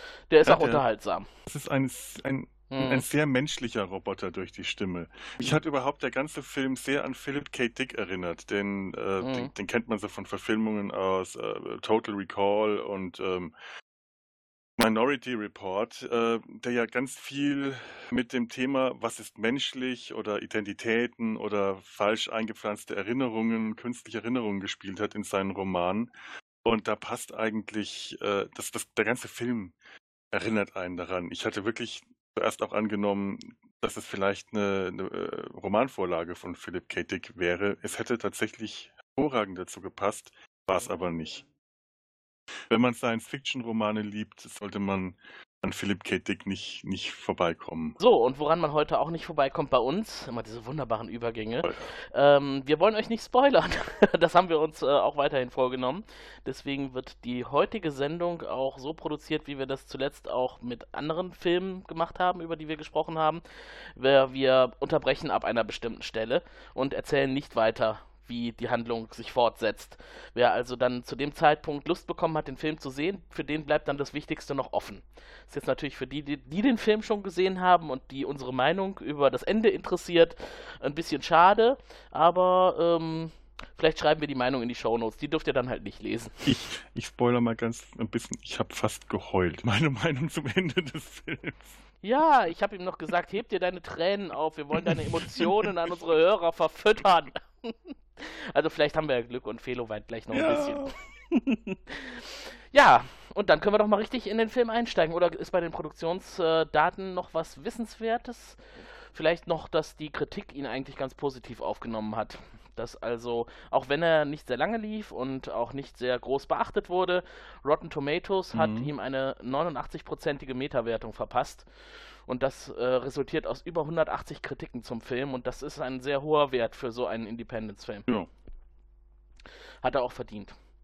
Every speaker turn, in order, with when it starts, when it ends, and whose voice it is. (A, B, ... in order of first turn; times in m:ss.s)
0:00.3-0:01.3 A
0:00.4-0:00.8 B
0:01.5-0:13.5 B
0:02.7-0:03.0 A
0:09.2-0:09.5 A
0:14.8-0:26.1 B
0:26.6-0:29.8 B
0:30.3-0:41.4 B
0:42.7-0:48.0 B
0:48.0-1:03.4 A
0:51.6-0:51.9 B
1:04.0-1:26.4 A
1:26.4-1:31.8 B
1:32.0-1:48.6 A
1:34.8-1:35.7 B
1:40.3-1:40.9 B
1:49.1-2:01.7 A
1:58.5-1:58.9 B
2:02.3-2:08.1 A
2:09.8-2:10.6 A